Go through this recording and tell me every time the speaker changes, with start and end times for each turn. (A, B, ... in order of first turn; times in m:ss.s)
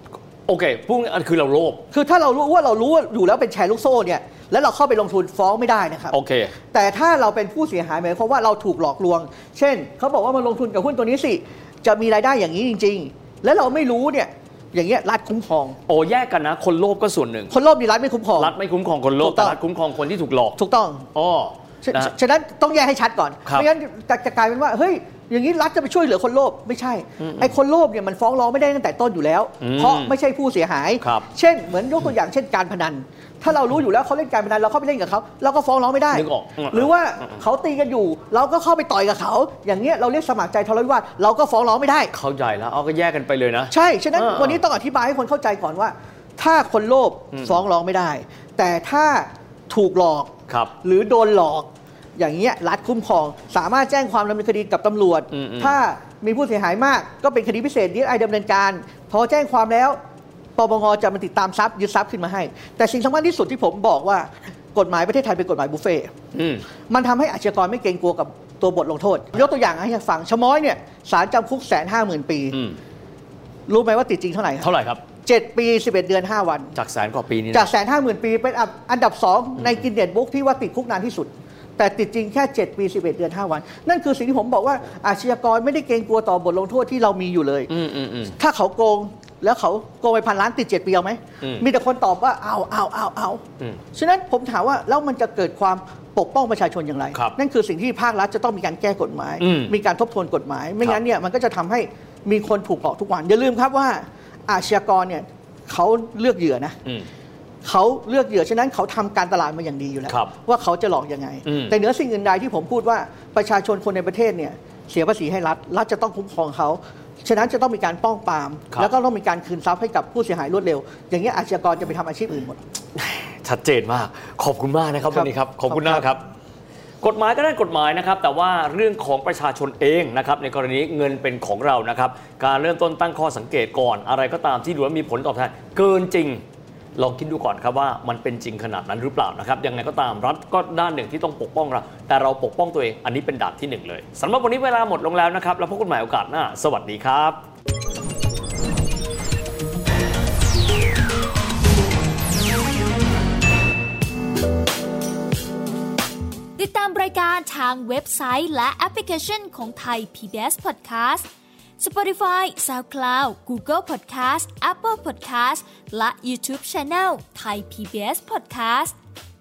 0:00.5-0:01.8 A
0:01.9-0:06.2 B
0:06.1-0:06.5 A
0:06.7-0:15.8 B
0:15.9-0:17.5 A
0:17.5-0:18.5 B
0:18.4-0:20.6 A
0:19.2-0:19.6 B
0:20.6-0:21.1 B
0:21.1-0:22.1 A
0:21.8-0:42.1 B
0:27.2-0:27.5 A
0:29.6-0:30.2 A
0:31.0-0:31.3 A
0:36.1-0:37.3 A
0:42.1-0:44.6 A
0:43.7-0:50.3 B
0:47.3-0:47.6 A
0:50.5-0:50.7 A
0:50.8-1:00.0 B
0:55.3-0:55.8 A
1:00.6-1:06.1 B
1:06.3-1:06.6 A
1:06.9-1:12.6 B
1:12.5-1:12.8 A
1:13.7-1:14.7 B
1:14.6-1:15.0 A
1:15.2-1:16.8 B
1:16.7-1:17.7 A
1:17.5-1:27.7 B
1:27.7-1:28.4 A
1:28.4-1:33.4 B
1:33.9-1:46.8 B
1:39.4-1:39.8 A
1:47.6-2:02.6 B
1:51.4-1:51.8 A
2:03.0-2:06.2 A
2:05.1-2:06.0 B
2:07.0-2:16.4 A
2:17.0-2:27.4 A
2:36.6-2:41.3 C
2:41.8-2:49.0 C